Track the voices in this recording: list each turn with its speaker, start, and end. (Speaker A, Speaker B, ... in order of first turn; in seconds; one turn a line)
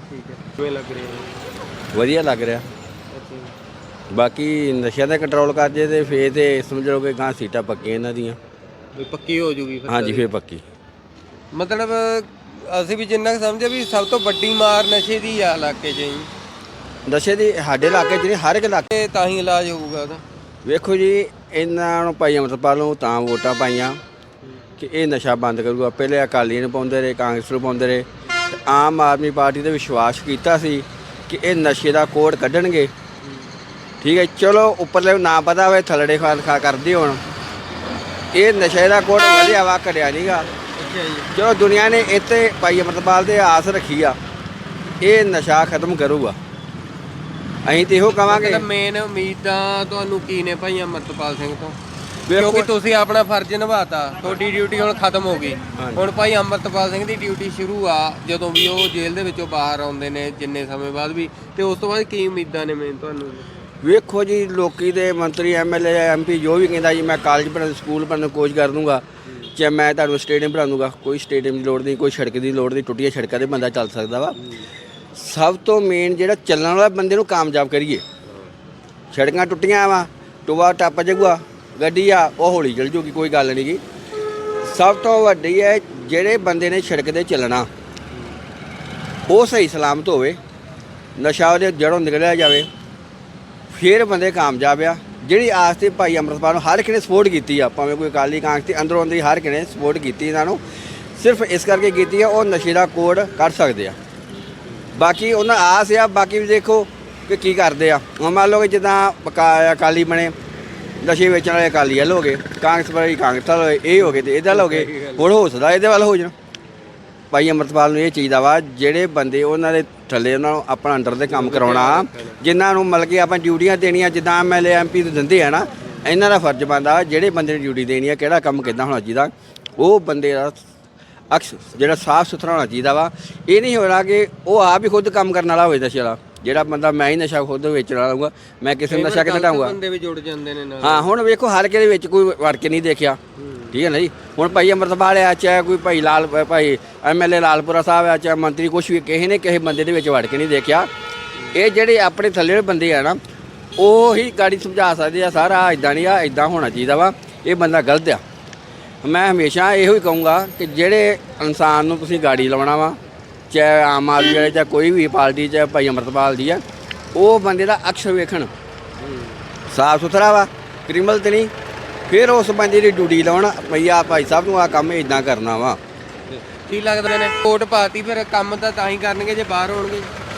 Speaker A: 0.1-1.4
Speaker B: 1.9-2.6
Speaker A: 3.1-3.5
Speaker B: 4.1-8.4
Speaker A: 8.9-10.2
Speaker B: 9.9-10.6
Speaker A: 11.5-16.3
Speaker B: 17.1-18.9
Speaker A: 18.9-20.2
Speaker B: 20.6-24.0
Speaker B: 24.8-28.1
Speaker B: 28.6-32.9
Speaker A: 33.2-33.5
Speaker B: 34.0-37.2
Speaker B: 38.3-40.5
Speaker A: 40.7-41.3
Speaker B: 41.3-44.2
Speaker B: 45.0-46.4
Speaker B: 47.6-48.6
Speaker A: 48.3-51.8
Speaker B: 52.3-52.7
Speaker A: 52.3-63.5
Speaker B: 55.8-56.1
Speaker B: 63.8-69.0
Speaker B: 69.5-74.3
Speaker A: 74.4-74.7
Speaker B: 75.2-78.0
Speaker A: 78.2-78.5
Speaker B: 79.1-83.8
Speaker B: 84.6-87.7
Speaker A: 88.1-88.4
Speaker B: 89.3-90.4
Speaker B: 91.2-92.7
Speaker B: 93.7-100.6
Speaker B: 101.2-104.0
Speaker B: 105.0-110.3
Speaker B: 111.0-116.3
Speaker A: 114.0-115.3
Speaker B: 117.3-130.6
Speaker A: 121.3-122.4
Speaker B: 131.3-139.7
Speaker A: 138.9-141.1
Speaker B: 140.8-143.2
Speaker A: 143.4-143.7
Speaker B: 143.7-150.9
Speaker B: 151.5-153.2
Speaker B: 153.8-158.2
Speaker B: 159.0-163.0
Speaker B: 163.5-166.6
Speaker B: 167.1-168.5
Speaker A: 169.0-169.4
Speaker B: 169.7-171.5
Speaker B: 172.1-175.8
Speaker A: 176.3-180.1